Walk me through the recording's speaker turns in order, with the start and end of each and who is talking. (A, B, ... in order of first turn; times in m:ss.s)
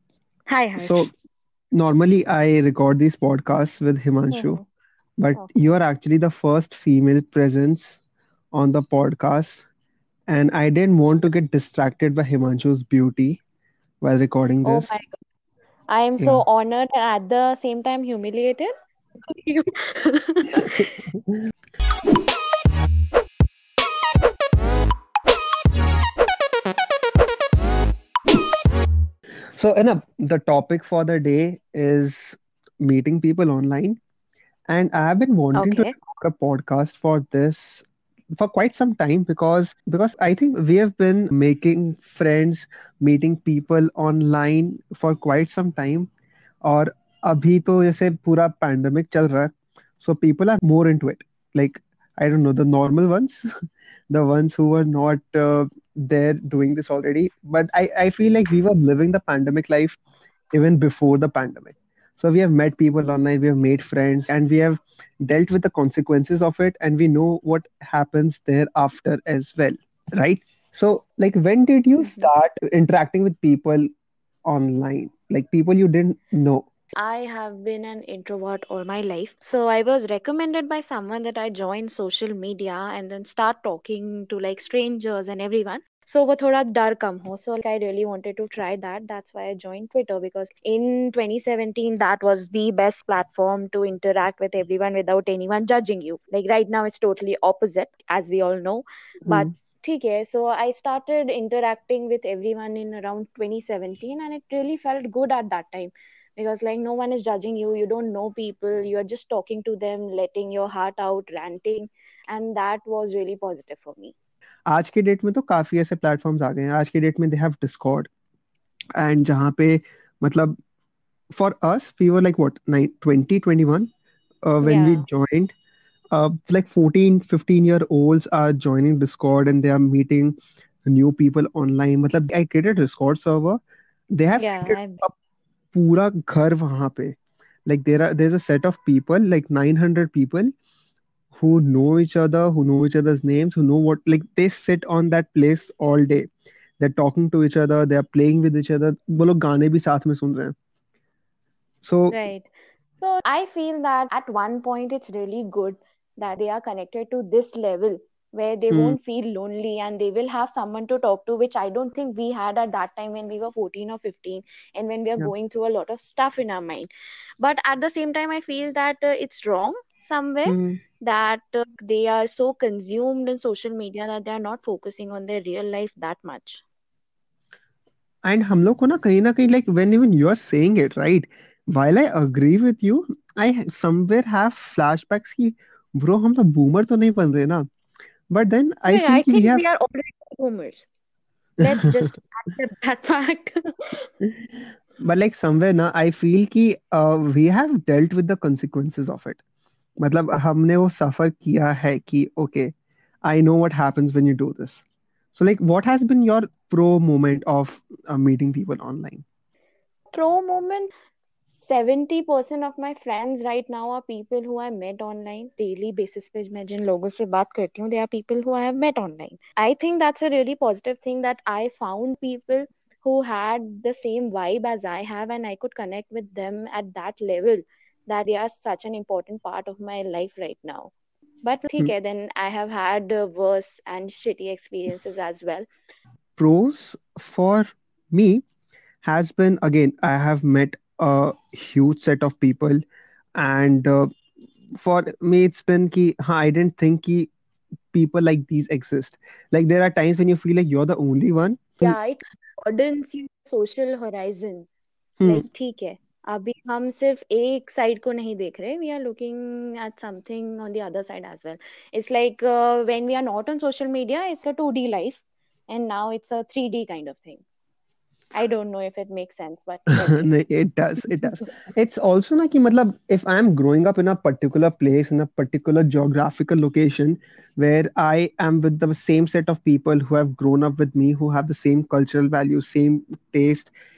0:00.5-0:01.1 A
0:00.8-0:01.1 B
0:01.7-0:04.6 B
0:04.3-0:04.6 A
0:05.2-0:08.0 B
0:05.4-0:05.6 A
0:08.5-0:09.6 B
0:10.3-0:13.4 B
0:14.0-0:14.9 B
0:14.6-0:15.2 A
0:15.9-0:18.7 A
0:19.2-0:21.0 A
0:20.6-0:21.4 B
0:29.6-0:34.0 B
0:34.7-0:46.1 B
0:35.6-0:35.9 A
0:46.6-0:53.5 B
0:54.1-1:00.0 B
1:00.5-1:13.9 B
1:12.0-1:12.3 A
1:14.4-1:16.7 B
1:16.9-1:54.1 A
1:54.7-1:58.1 B
1:59.0-2:00.6 B
2:01.3-2:03.9 B
2:04.4-2:05.5 B
2:04.6-2:05.0 A
2:06.1-2:13.6 B
2:14.1-2:15.1 B
2:14.4-2:15.0 A
2:15.7-2:20.5 B
2:21.3-2:30.5 B
2:31.8-2:32.2 B
2:32.1-2:32.5 A
2:33.0-2:46.9 A
2:38.7-2:39.0 B
2:47.4-2:56.6 A
2:50.5-2:50.8 B
2:58.2-3:07.7 B
3:08.3-3:09.7 B
3:08.9-3:10.9 A
3:11.6-3:14.1 A
3:11.6-3:11.9 B
3:15.0-3:19.4 B
3:20.0-3:22.7 B
3:23.2-3:29.2 B
3:30.1-3:30.9 A
3:31.5-3:50.9 A
3:51.4-3:55.6 A
3:56.4-3:58.4 B
3:59.0-4:02.8 B
4:03.4-4:04.1 B
4:04.7-4:07.3 B
4:07.9-4:12.0 B
4:11.8-4:14.7 A
4:15.2-4:15.4 B
4:15.2-4:27.4 A
4:28.3-4:30.3 A
4:29.9-4:43.7 B